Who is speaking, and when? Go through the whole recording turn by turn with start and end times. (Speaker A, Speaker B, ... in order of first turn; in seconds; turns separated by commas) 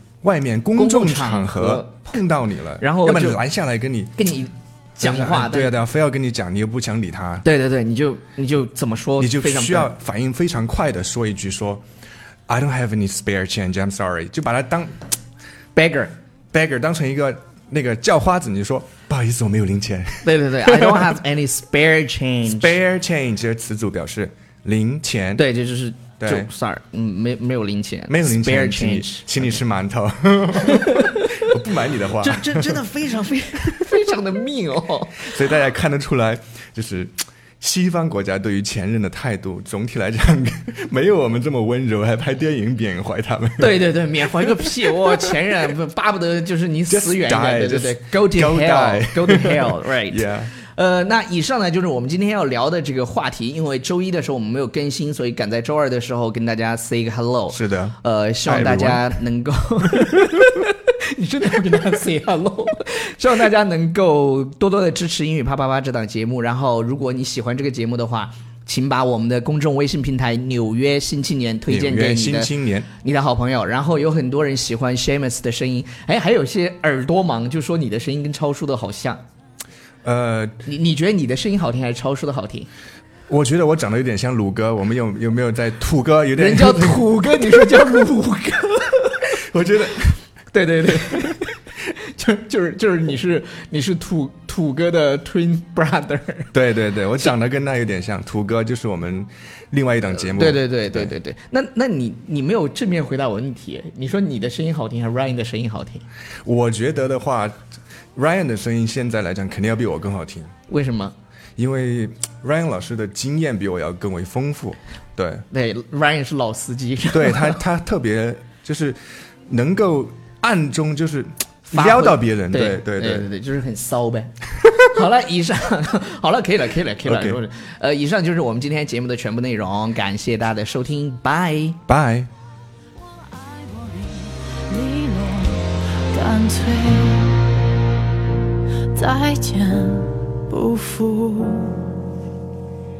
Speaker A: 0.2-4.2, Speaker B: 0.7-2.2, Speaker B: 2.8-3.4, Speaker B: 4.2-5.8, Speaker A: 5.0-7.4, Speaker B: 7.4-9.9, Speaker A: 9.2-11.8, Speaker A: 12.5-15.0, Speaker B: 15.7-16.1, Speaker A: 16.5-21.2, Speaker B: 20.2-22.7, Speaker A: 22.4-25.4, Speaker B: 25.4-29.6, Speaker A: 26.2-26.5, Speaker A: 28.1-32.8, Speaker B: 30.6-31.5, Speaker B: 32.2-35.3, Speaker A: 35.2-45.4, Speaker B: 43.6-79.2, Speaker A: 46.9-50.5, Speaker A: 57.5-59.1, Speaker A: 71.7-72.9, Speaker A: 80.0-80.5, Speaker B: 80.6-82.7, Speaker A: 83.3-87.0, Speaker B: 86.3-89.3, Speaker A: 89.4-90.2, Speaker B: 90.5-96.5, Speaker A: 96.5-101.1, Speaker B: 100.2-106.0, Speaker A: 106.4-107.6, Speaker A: 108.1-110.5, Speaker B: 110.7-111.1, Speaker A: 111.6-115.5, Speaker B: 115.5-117.6, Speaker A: 117.1-123.3, Speaker B: 121.7-131.8, Speaker A: 127.0-127.4, Speaker A: 131.9-132.3, Speaker C: 133.5-137.5, Speaker C: 138.9-141.8